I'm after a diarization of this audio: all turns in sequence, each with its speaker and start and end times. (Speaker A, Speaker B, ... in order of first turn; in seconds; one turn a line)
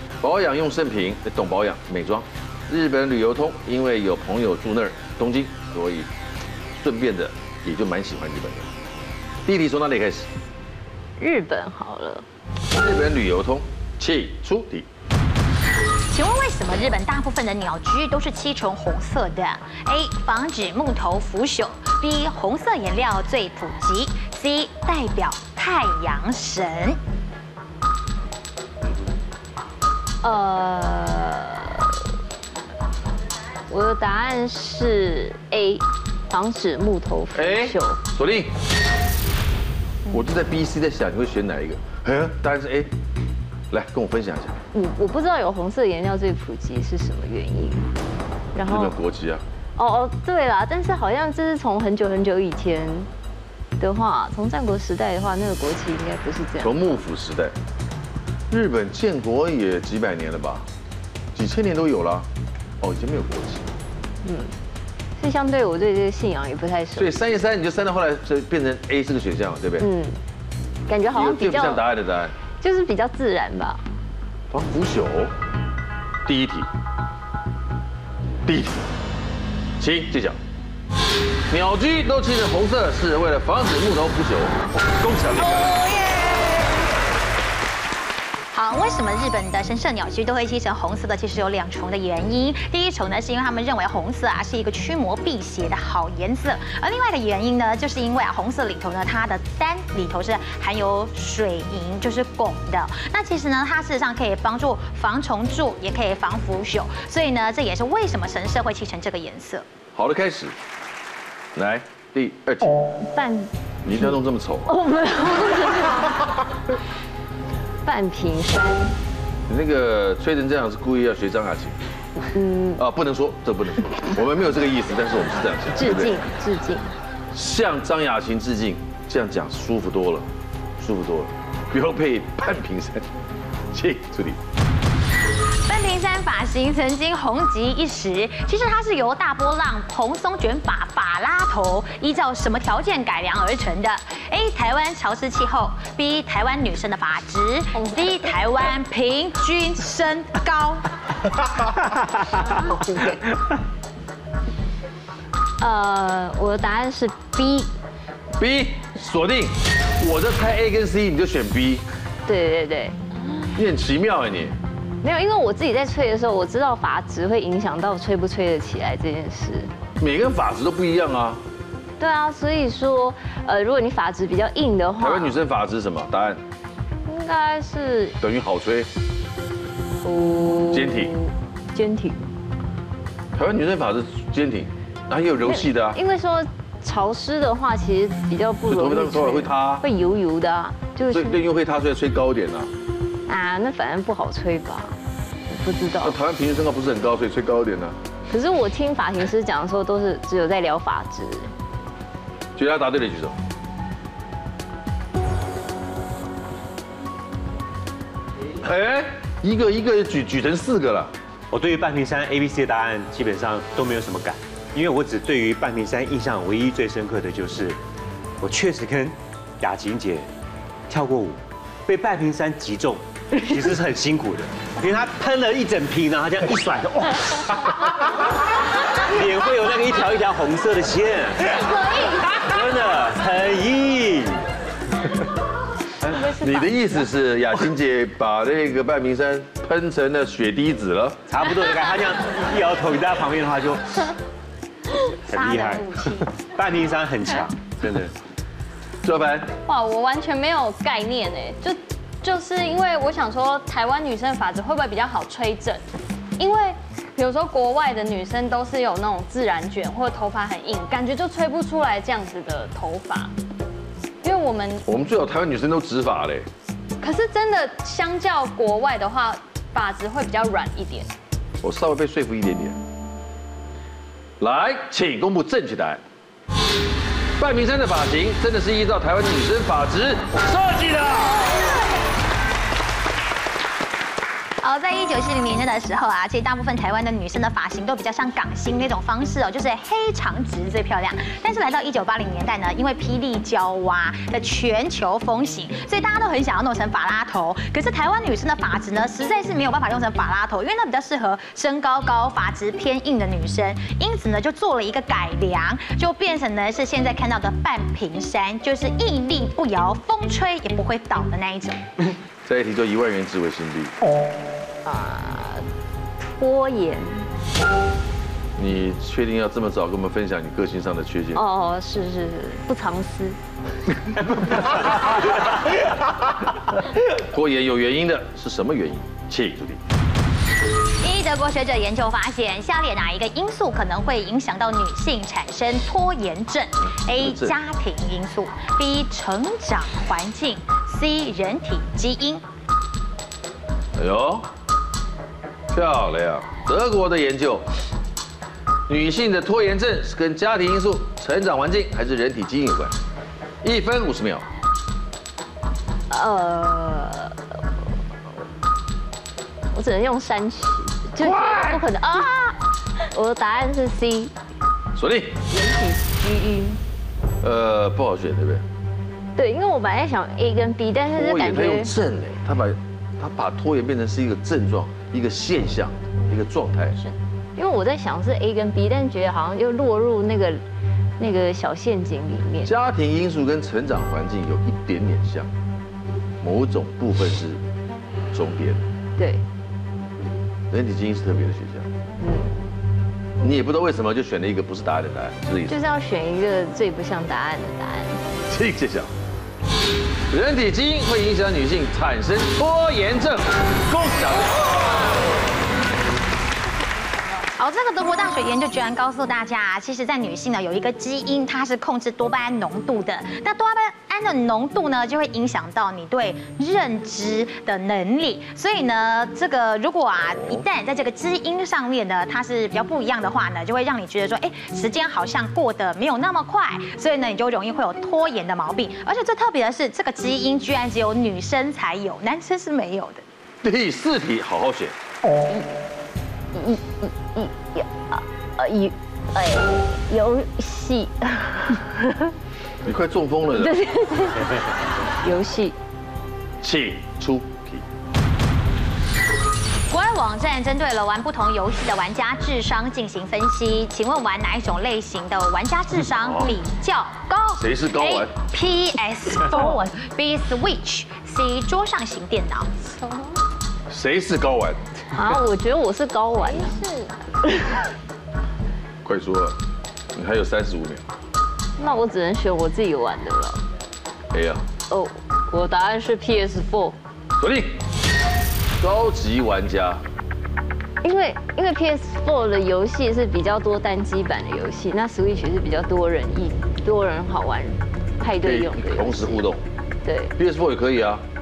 Speaker A: 0.2-6.1
Speaker A: 6.8-8.7
Speaker A: 9.4-10.3
Speaker B: 11.2-12.2
Speaker A: 12.7-14.9
Speaker C: 16.1-27.0
Speaker B: 30.2-31.9
Speaker B: 33.7-38.0
Speaker A: 37.3-38.5
Speaker A: 40.1-42.9
Speaker A: 43.7-44.6
Speaker B: 44.7-47.9
Speaker B: 48.5-49.0
Speaker A: 48.6-49.4
Speaker B: 49.8-53.1
Speaker B: 53.8-56.9
Speaker A: 56.6-57.5
Speaker A: 58.5-60.7
Speaker A: 61.3-62.3
Speaker A: 62.8-63.7
Speaker B: 64.2-64.5
Speaker B: 65.2-67.3
Speaker A: 67.0-69.9
Speaker B: 69.8-70.2
Speaker B: 70.9-71.8
Speaker A: 71.1-72.3
Speaker B: 72.6-73.8
Speaker A: 74.5-75.3
Speaker A: 76.2-76.7
Speaker A: 78.4-78.9
Speaker A: 79.8-80.4
Speaker A: 81.5-85.8
Speaker C: 85.8-86.7
Speaker C: 88.5-109.6
Speaker A: 109.9-110.5
Speaker A: 111.5-112.9
Speaker B: 113.0-116.2
Speaker A: 113.8-114.7
Speaker B: 117.8-119.0
Speaker A: 119.5-121.8
Speaker B: 122.3-122.8
Speaker A: 122.8-126.2
Speaker B: 125.7-127.0
Speaker A: 127.3-133.1
Speaker A: 133.7-134.4
Speaker C: 135.7-150.9
Speaker B: 155.6-157.7
Speaker A: 158.4-161.8
Speaker B: 162.2-163.0
Speaker A: 163.6-164.6
Speaker B: 165.0-169.7
Speaker A: 170.0-171.4
Speaker B: 172.0-175.4
Speaker A: 175.0-176.4
Speaker B: 177.0-178.2
Speaker A: 178.2-178.9
Speaker B: 180.0-182.3
Speaker A: 180.7-181.1
Speaker A: 183.3-186.0
Speaker B: 185.4-191.4
Speaker A: 188.7-189.8
Speaker A: 191.1-192.7
Speaker B: 193.3-195.0
Speaker B: 195.5-196.2
Speaker A: 196.0-198.0
Speaker B: 198.3-201.5
Speaker A: 202.6-203.4
Speaker A: 208.6-211.1
Speaker D: 211.5-217.8
Speaker D: 218.4-220.3
Speaker D: 220.9-228.3
Speaker D: 229.0-231.7
Speaker D: 232.2-234.4
Speaker A: 236.2-241.2
Speaker D: 241.3-244.1
Speaker D: 245.3-248.2
Speaker C: 245.3-246.3
Speaker A: 249.0-249.5
Speaker E: 249.7-255.8
Speaker E: 256.4-263.3
Speaker E: 264.2-264.8
Speaker A: 264.9-266.5
Speaker E: 267.0-271.1
Speaker A: 271.6-272.8
Speaker A: 274.4-276.0
Speaker A: 277.4-281.5
Speaker C: 284.6-311.8
Speaker A: 312.4-313.9
Speaker B: 314.8-315.6
Speaker B: 316.4-317.3
Speaker A: 318.6-321.4
Speaker B: 321.3-323.4
Speaker A: 327.1-329.8
Speaker C: 331.0-342.4
Speaker A: 337.0-337.6
Speaker A: 343.9-344.5
Speaker A: 345.7-347.7
Speaker A: 348.9-352.9
Speaker A: 353.6-354.4
Speaker B: 356.1-357.4
Speaker B: 359.7-362.6
Speaker A: 361.2-361.9
Speaker B: 363.1-364.3
Speaker A: 364.9-365.4
Speaker B: 365.5-366.8
Speaker A: 367.4-368.6
Speaker B: 369.4-371.9
Speaker A: 371.1-377.0
Speaker B: 377.6-380.6
Speaker B: 381.2-382.7
Speaker A: 382.6-385.5
Speaker A: 386.4-387.6
Speaker A: 388.3-388.8
Speaker B: 389.2-389.4
Speaker A: 390.7-391.9
Speaker B: 392.2-392.6
Speaker A: 393.4-395.8
Speaker B: 395.7-398.2
Speaker A: 398.4-399.1
Speaker A: 400.3-405.1
Speaker C: 407.6-433.2
Speaker A: 433.6-434.9
Speaker B: 435.5-435.8
Speaker B: 436.5-442.3
Speaker A: 442.8-443.8
Speaker B: 443.5-444.7
Speaker B: 445.2-445.8
Speaker A: 446.6-447.8
Speaker C: 449.9-462.9
Speaker A: 456.1-456.6
Speaker A: 457.6-458.3
Speaker E: 463.0-463.3
Speaker A: 463.9-464.8
Speaker B: 465.1-467.8
Speaker A: 469.0-469.6
Speaker A: 470.1-471.0
Speaker B: 471.8-473.6
Speaker A: 474.3-474.6
Speaker B: 474.9-477.0
Speaker A: 477.4-477.8
Speaker A: 478.8-480.0
Speaker B: 481.0-489.4
Speaker A: 488.4-489.6
Speaker B: 490.0-490.3
Speaker A: 490.4-491.2